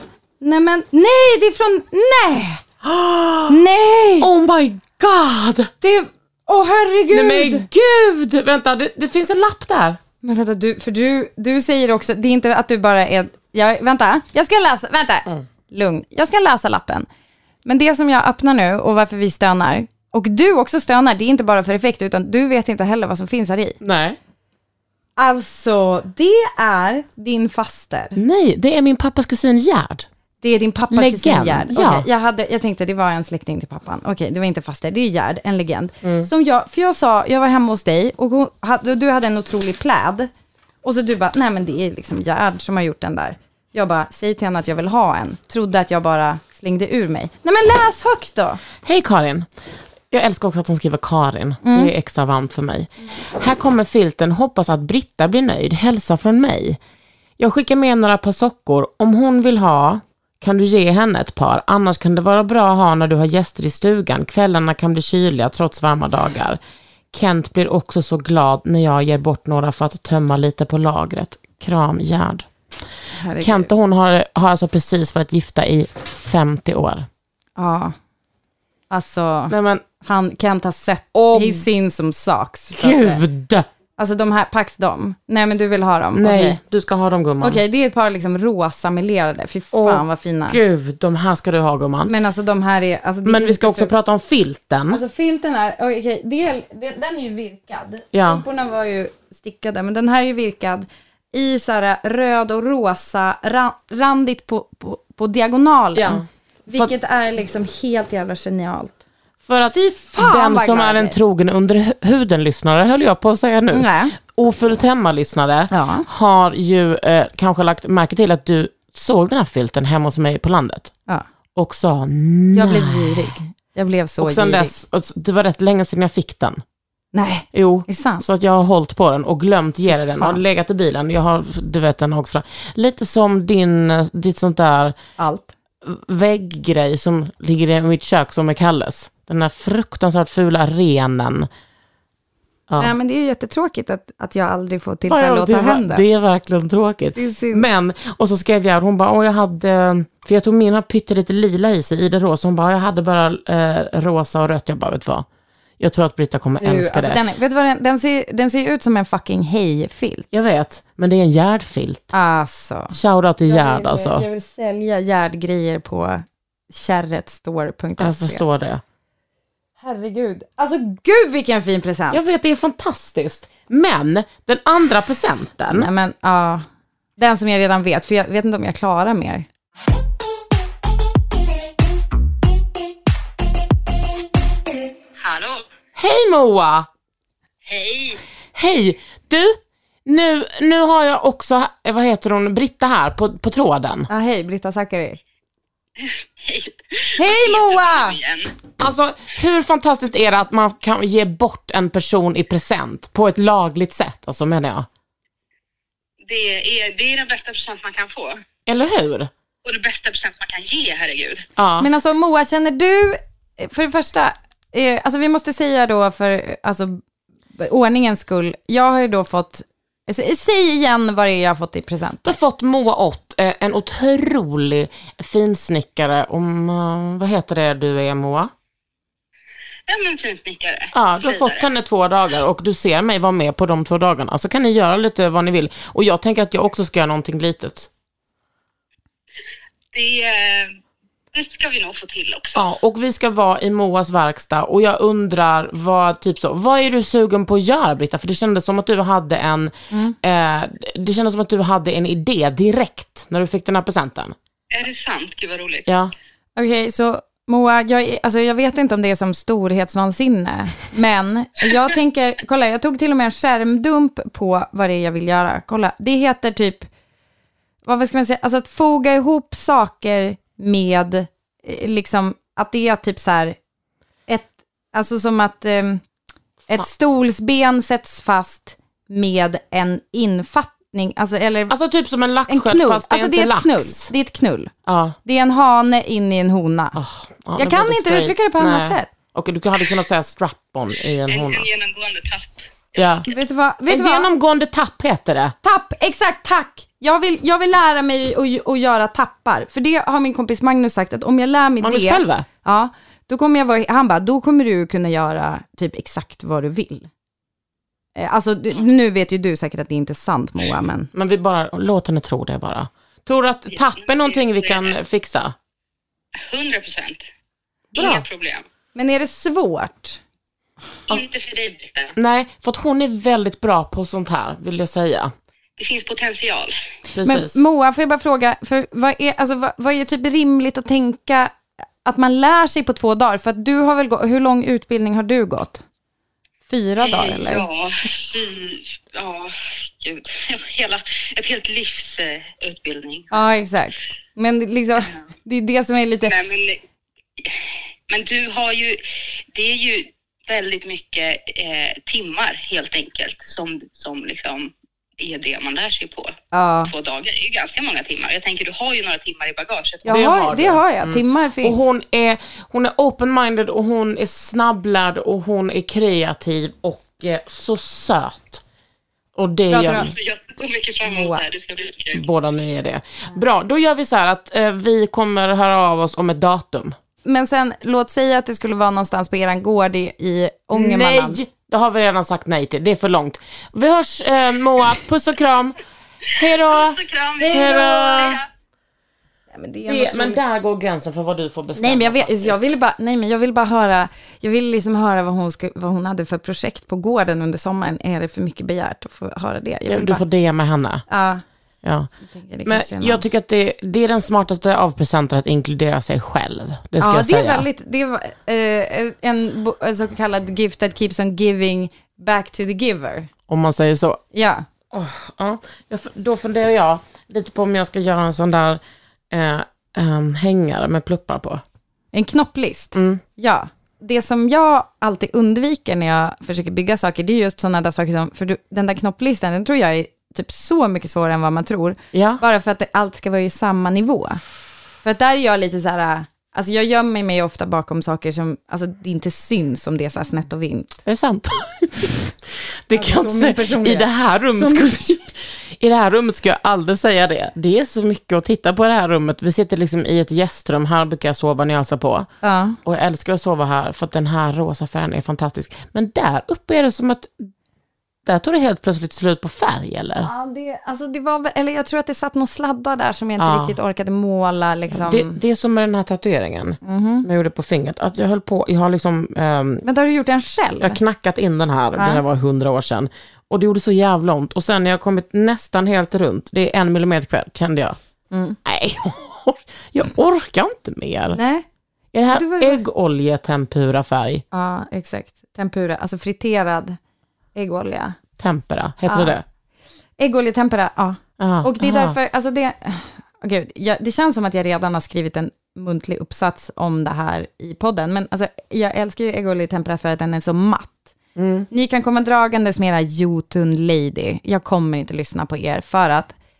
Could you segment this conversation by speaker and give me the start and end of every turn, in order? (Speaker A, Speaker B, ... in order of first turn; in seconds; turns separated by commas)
Speaker A: 0.4-2.6, Speaker B: 2.8-3.6, Speaker A: 3.5-4.3, Speaker B: 4.2-5.7, Speaker A: 5.8-7.7, Speaker B: 7.1-10.0, Speaker A: 10.2-17.1, Speaker A: 17.6-23.8, Speaker B: 23.8-24.2, Speaker A: 25.2-28.2, Speaker B: 28.2-30.1, Speaker A: 30.4-40.3, Speaker B: 30.9-32.1, Speaker B: 36.0-36.3, Speaker A: 40.8-48.6, Speaker B: 48.8-49.5, Speaker B: 50.1-56.8, Speaker A: 51.6-51.9, Speaker B: 57.4-66.6, Speaker B: 67.1-72.5, Speaker A: 73.1-73.7, Speaker B: 73.4-77.1, Speaker A: 77.6-78.0, Speaker A: 78.9-83.2, Speaker B: 79.5-79.8, Speaker B: 81.1-81.7, Speaker B: 82.7-83.7, Speaker A: 84.0-86.6, Speaker B: 86.1-87.6, Speaker A: 87.4-90.6, Speaker B: 89.7-92.1, Speaker A: 92.1-93.9, Speaker B: 93.2-95.0, Speaker A: 94.9-109.0, Speaker B: 98.1-98.4, Speaker B: 106.0-106.9, Speaker B: 109.4-120.9, Speaker A: 109.7-111.2, Speaker A: 113.7-114.2, Speaker A: 115.7-116.1, Speaker B: 121.5-123.4, Speaker A: 122.5-124.7, Speaker B: 124.2-126.6, Speaker A: 127.1-128.2, Speaker B: 127.5-135.0, Speaker A: 129.9-130.4, Speaker A: 135.2-135.5, Speaker B: 135.8-141.5, Speaker B: 142.7-142.9, Speaker A: 142.8-146.0, Speaker B: 145.1-155.3, Speaker A: 147.2-147.7, Speaker B: 155.8-157.2, Speaker A: 156.6-160.3, Speaker B: 160.3-162.1, Speaker A: 162.1-162.9, Speaker B: 162.9-164.2, Speaker A: 163.5-168.4, Speaker B: 168.0-168.8, Speaker A: 169.8-172.3, Speaker B: 172.1-175.9, Speaker A: 175.7-176.7, Speaker A: 177.2-179.5, Speaker C: 185.2-185.6, Speaker B: 185.9-186.9, Speaker C: 187.7-188.2, Speaker B: 188.6-194.1, Speaker A: 194.1-195.2, Speaker C: 196.5-198.5, Speaker A: 197.2-198.2, Speaker B: 198.8-204.9, Speaker C: 206.3-208.4, Speaker B: 208.7-209.3, Speaker C: 209.6-211.4, Speaker B: 211.6-211.9, Speaker A: 211.8-217.0, Speaker A: 217.6-222.4, Speaker B: 222.2-228.5, Speaker C: 229.9-231.7, Speaker B: 230.9-237.9, Speaker C: 239.9-240.8, Speaker C: 241.3-242.7, Speaker B: 242.6-254.3, Speaker C: 254.7-255.9, Speaker B: 255.9-256.1, Speaker A: 256.6-266.9, Speaker A: 267.9-273.6, Speaker A: 274.3-276.0, Speaker A: 276.7-281.7, Speaker B: 281.7-284.1, Speaker A: 282.5-284.7, Speaker B: 284.9-285.2, Speaker A: 285.2-287.0, Speaker B: 286.9-291.7, Speaker A: 287.6-289.1, Speaker C: 291.2-293.1, Speaker B: 293.0-293.3, Speaker A: 293.3-294.3, Speaker B: 293.9-295.5, Speaker A: 295.6-307.1, Speaker B: 301.8-302.5, Speaker A: 308.2-311.1, Speaker B: 311.1-315.6, Speaker C: 313.7-315.0, Speaker C: 316.5-317.2, Speaker B: 317.9-318.2, Speaker C: 317.9-318.6, Speaker A: 318.9-320.2, Speaker C: 321.1-322.2, Speaker B: 322.2-325.3, Speaker C: 325.8-326.7, Speaker B: 327.1-327.6, Speaker A: 327.2-331.5, Speaker A: 332.1-335.8, Speaker A: 336.7-337.7, Speaker C: 337.0-343.3, Speaker A: 343.3-346.3, Speaker C: 346.2-346.8, Speaker C: 348.1-349.0, Speaker C: 349.5-356.3, Speaker A: 356.5-356.9, Speaker C: 356.8-360.5, Speaker A: 360.1-361.9, Speaker B: 360.1-368.6, Speaker B: 369.4-370.1, Speaker A: 369.7-370.1, Speaker C: 369.9-372.2, Speaker A: 371.0-371.4, Speaker B: 372.1-377.0, Speaker A: 377.2-381.4, Speaker B: 380.7-385.8, Speaker B: 386.3-388.4, Speaker C: 386.4-388.4, Speaker A: 387.4-387.7, Speaker A: 389.5-390.4, Speaker B: 389.9-392.7, Speaker A: 391.8-400.2, Speaker B: 399.9-401.1, Speaker A: 401.1-401.4, Speaker B: 401.8-402.1, Speaker A: 402.2-403.2, Speaker B: 402.6-407.7, Speaker A: 407.0-413.3, Speaker B: 413.5-414.2, Speaker A: 414.3-414.7, Speaker B: 414.9-421.6, Speaker A: 422.1-434.4, Speaker B: 422.9-423.2, Speaker B: 432.1-432.4, Speaker A: 435.0-441.0, Speaker B: 441.1-452.3, Speaker A: 442.9-444.9, Speaker A: 452.4-452.8, Speaker B: 452.9-457.5, Speaker B: 458.3-460.3, Speaker A: 460.2-465.4, Speaker B: 463.4-463.8, Speaker B: 464.9-469.9, Speaker A: 466.8-467.3, Speaker A: 469.8-471.0, Speaker B: 470.8-478.0, Speaker A: 472.0-472.2, Speaker A: 478.3-478.6, Speaker B: 478.6-481.4, Speaker A: 481.3-481.7, Speaker B: 482.1-484.4, Speaker A: 482.3-482.8, Speaker A: 484.5-487.0, Speaker A: 487.6-488.2, Speaker B: 488.4-489.4, Speaker A: 489.1-489.4, Speaker A: 490.2-501.1, Speaker B: 491.4-492.2, Speaker B: 501.4-501.7, Speaker A: 501.7-506.4